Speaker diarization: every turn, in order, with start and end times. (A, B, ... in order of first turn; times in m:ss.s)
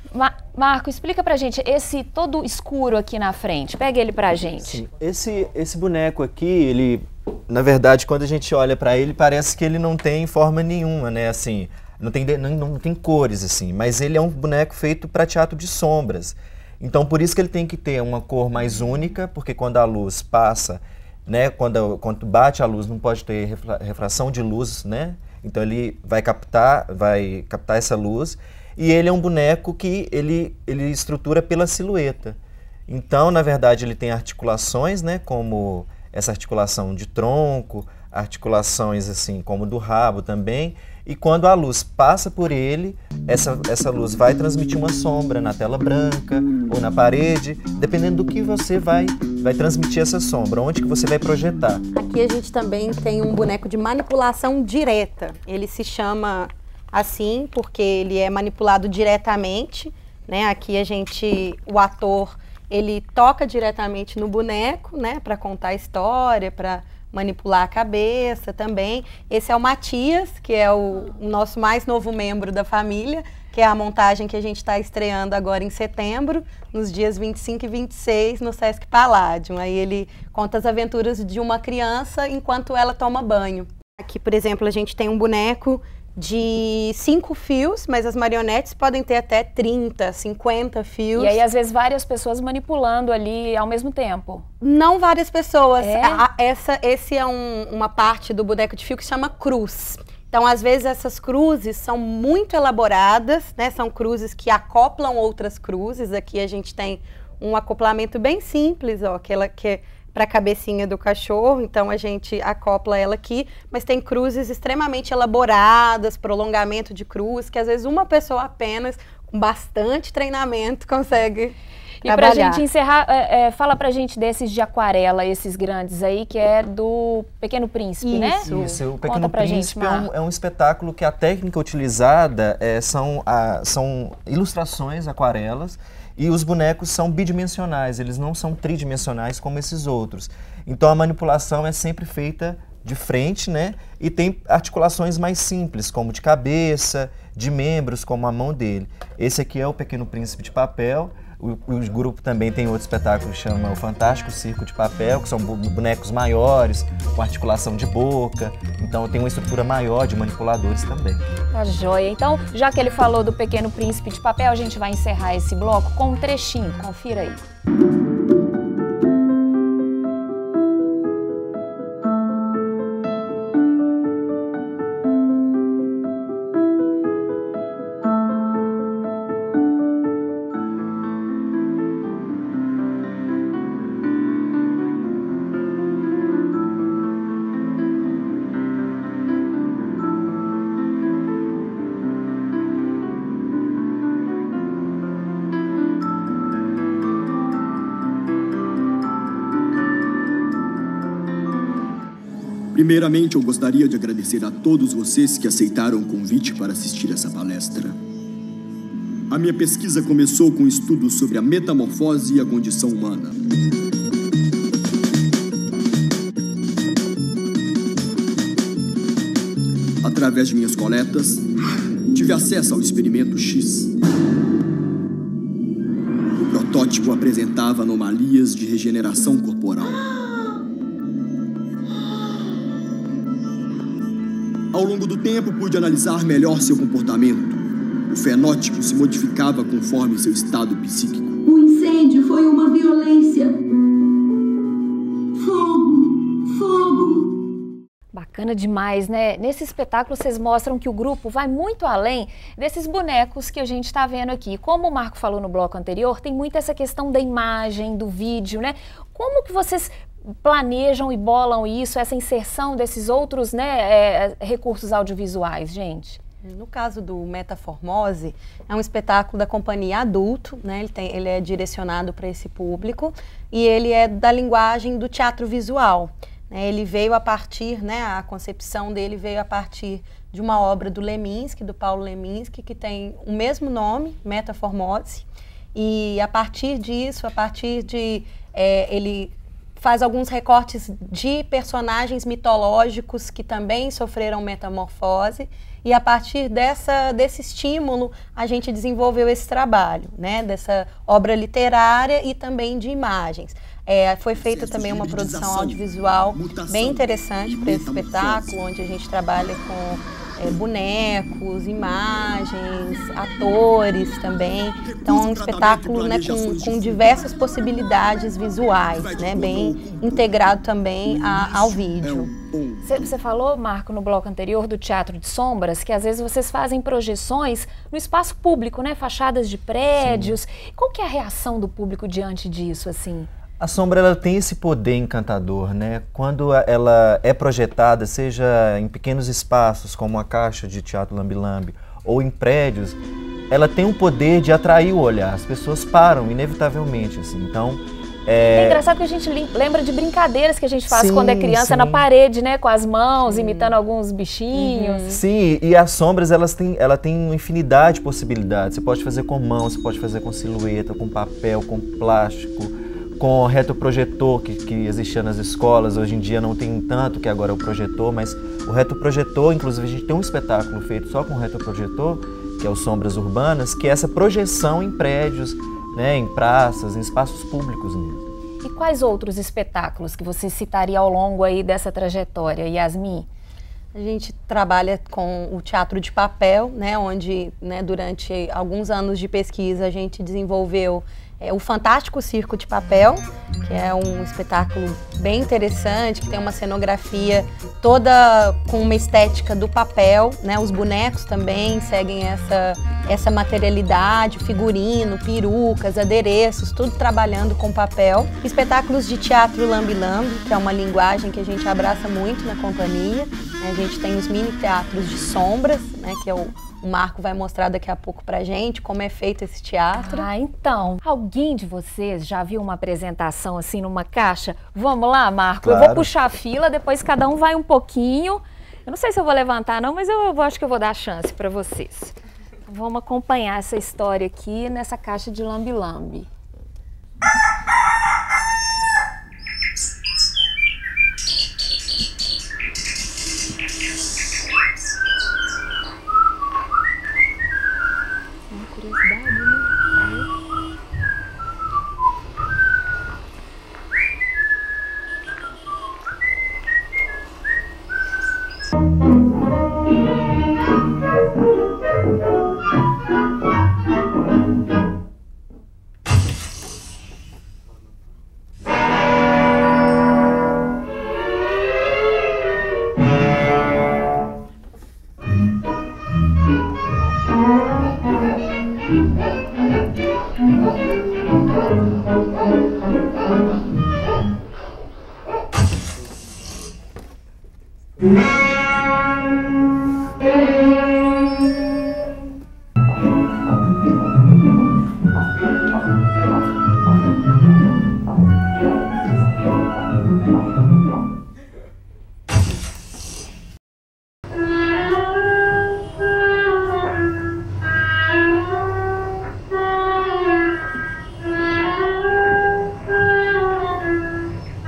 0:00.1-0:04.8 A
0:04.6-0:51.8 B
0:51.9-1:31.4 C
1:31.2-1:34.4 A
1:34.6-2:02.6 C
1:35.8-1:36.2 A
2:02.0-2:10.1 A
2:08.0-2:08.8 C
2:08.4-2:41.2 B
2:41.5-2:47.4 A
3:22.7-3:28.0 D
3:29.3-3:33.4 D
3:40.0-3:41.5 D
3:42.1-3:43.9 D
3:46.4-3:50.0 D
3:54.7-4:01.4 D
4:01.4-4:03.6 E
4:05.4-4:07.3 E
4:08.1-4:19.9 A
4:20.4-4:26.2 A
4:26.4-5:22.3 C
5:04.4-5:08.6 D
5:14.8-5:17.3 D
5:18.9-5:20.3 D
5:21.1-5:23.1 D
5:22.8-5:33.3 A
5:30.0-5:30.4 B
5:33.6-5:43.0 B
5:43.5-5:48.8 B
5:48.5-5:55.0 A
5:50.9-5:52.0 B
5:53.2-5:53.8 C
5:54.5-5:55.2 C
5:55.1-6:18.2 B
6:18.6-6:23.3 A
6:23.9-7:00.3 C
7:00.0-7:12.2 A
7:05.6-7:06.1 B
7:12.7-7:16.3 A
7:28.5-7:30.4 A